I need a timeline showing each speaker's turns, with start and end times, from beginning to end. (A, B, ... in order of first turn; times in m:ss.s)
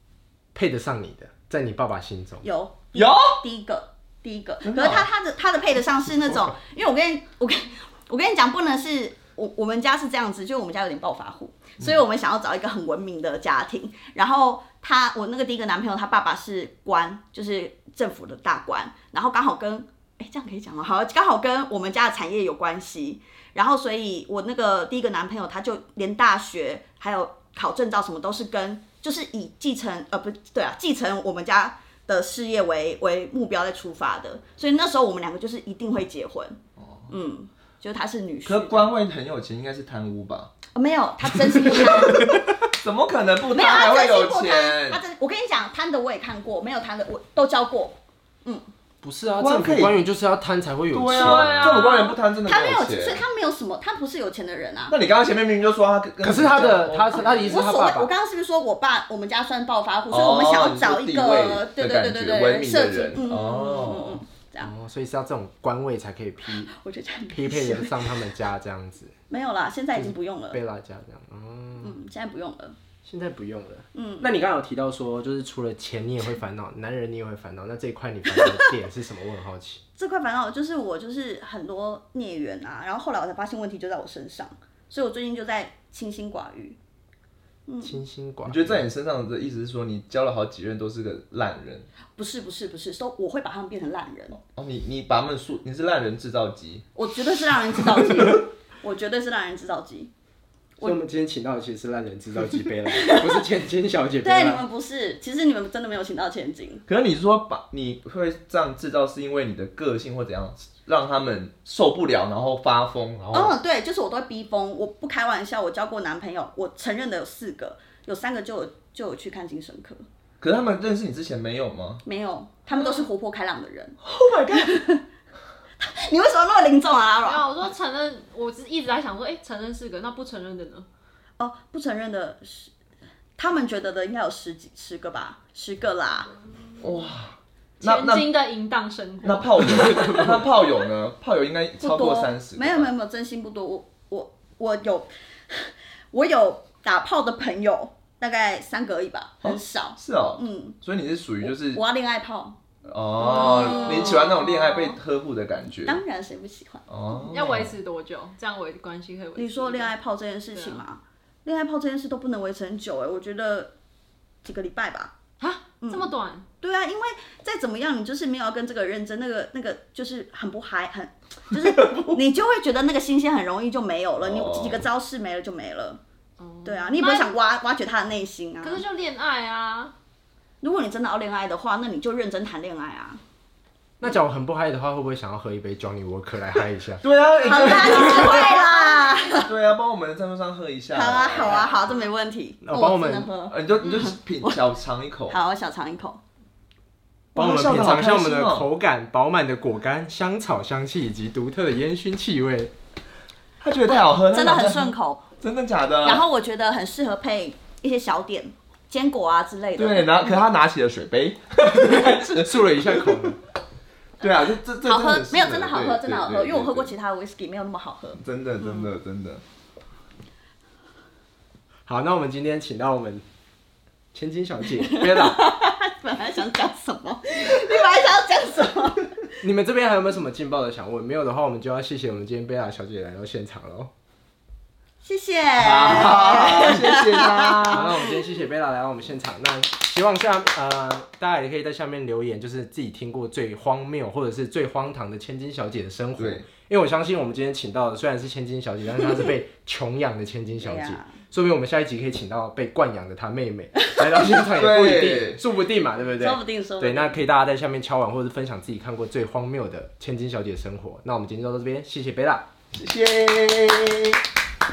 0:00.5-0:02.4 A
0:02.4-0:36.6 B
0:02.9-0:03.4 C
0:04.6-0:05.0 C
0:36.8-0:37.1 C
0:37.1-0:38.9 B
0:38.5-0:40.5 C
0:40.7-0:42.4 B
0:42.7-0:45.0 C
0:43.5-0:48.6 B
0:49.0-0:51.6 A
0:49.4-0:50.0 C
0:50.9-0:53.2 C
0:51.1-0:52.1 D
0:51.4-0:54.9 B
0:54.9-0:57.7 C
0:56.2-0:58.1 A
0:57.2-1:04.7 B
1:00.1-1:04.2 C
1:04.6-1:06.7 A
1:06.6-1:08.1 B
1:07.3-1:09.1 A
1:09.3-1:10.6 B
1:09.9-1:11.9 A
1:11.8-1:12.8 B
1:13.0-1:19.8 A
1:13.9-1:14.3 B
1:20.0-1:26.8 B
1:27.7-1:28.0 B
1:27.8-1:28.8 A
1:28.4-1:31.9 C
1:32.2-1:34.4 B
1:34.4-1:36.8 C
1:36.9-1:40.1 B
1:40.8-1:44.6 A
1:42.8-1:43.4 B
1:44.2-1:46.8 B
1:46.9-1:53.5 C
1:53.3-2:00.0 B
2:00.4-2:02.0 C
2:02.0-2:04.0 B
2:04.0-2:04.7 C
2:04.5-2:05.0 B
2:05.8-2:07.5 B
2:07.2-2:10.9 D
2:11.4-2:12.7 B
2:13.4-2:16.3 B
2:16.8-2:18.3 C
2:17.8-2:20.3 D
2:19.2-2:22.9 C
2:21.8-2:30.8 B
2:29.4-2:31.8 C
2:31.4-2:32.6 B
2:32.8-2:36.0 C
2:33.2-2:34.3 B
2:33.3-2:34.5 D
2:35.8-2:36.8 B
2:36.9-2:37.7 C
2:37.2-2:39.9 D
2:39.4-2:43.7 B
2:40.5-2:40.8 D
2:44.4-2:45.1 B
2:45.4-2:46.5 D
2:45.8-2:46.1 B
2:46.6-2:56.0 B
2:54.2-2:54.8 C
2:56.4-2:57.3 D
2:56.6-2:58.8 B
2:58.6-2:59.9 D
3:00.6-3:03.2 B
3:04.0-3:07.0 A
3:07.0-3:08.6 C
3:07.4-3:09.5 B
3:07.7-3:09.2 D
3:07.9-3:08.3 A
3:09.4-3:11.7 C
3:10.9-3:14.6 B
3:12.6-3:13.3 A
3:13.5-3:15.4 C
3:15.3-3:16.2 B
3:17.3-3:18.7 C
3:17.3-3:22.7 A
3:23.6-3:26.2 C
3:24.3-3:25.3 B
3:26.0-3:30.3 B
3:29.8-3:33.1 C
3:31.7-3:33.4 A
3:34.2-3:36.9 C
3:34.8-3:38.9 B
3:38.2-3:39.4 C
3:41.9-3:43.2 A
3:44.1-3:45.5 A
3:44.8-3:49.2 B
3:49.4-3:53.9 A
3:55.0-3:58.1 B
3:55.6-3:58.0 C
3:57.7-4:22.4 A
4:06.2-4:06.4 C
4:10.6-4:11.1 B
4:14.6-4:15.4 C
4:16.2-4:17.2 B
4:22.7-4:24.2 C